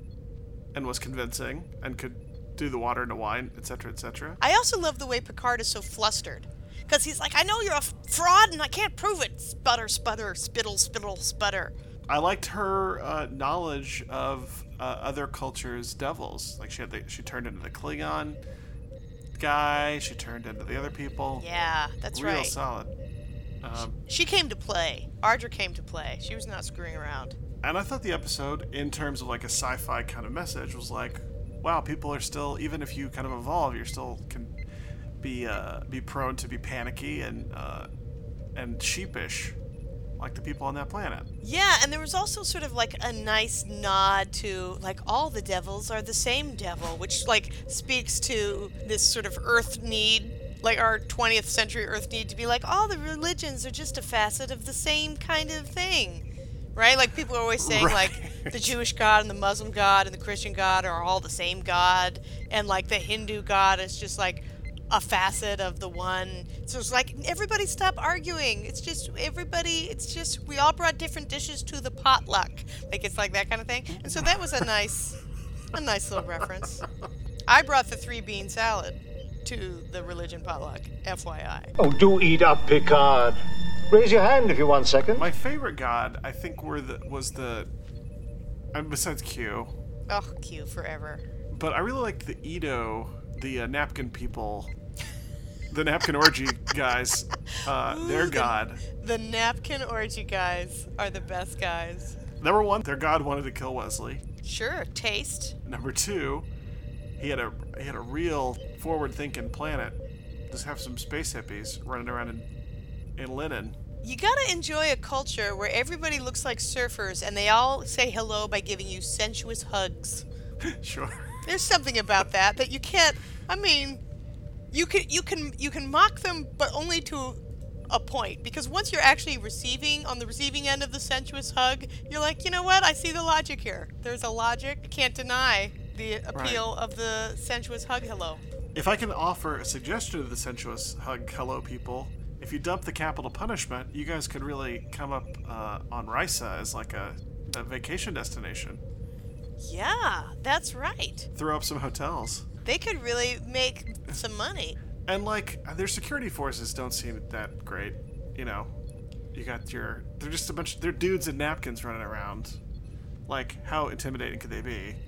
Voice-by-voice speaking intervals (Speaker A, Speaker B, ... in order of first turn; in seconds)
Speaker A: 0.7-4.4, 12.1-18.4, 19.4-21.4, 22.1-22.9, 23.6-24.0, 27.6-34.5, 35.2-37.9, 38.5-39.6, 40.2-41.3, 57.6-58.7, 85.2-87.7, 88.7-89.7, 91.5-94.7, 95.7-98.8, 102.4-104.2, 105.7-106.5, 107.2-110.0, 110.5-112.5, 113.2-113.8, 120.6-121.3, 136.3-136.6, 138.7-148.8, 151.3-152.5, 155.1-158.7, 159.3-162.6, 163.3-165.0
Speaker B: 4.4-11.7, 21.4-22.6, 24.1-27.4, 41.4-56.2, 56.8-75.2, 75.7-76.8, 77.5-81.7, 90.1-91.2, 97.9-102.2, 104.4-105.5, 114.0-120.2, 121.4-124.0, 124.7-138.4, 149.6-151.3, 152.7-154.8
Speaker C: 81.8-83.4, 83.9-85.3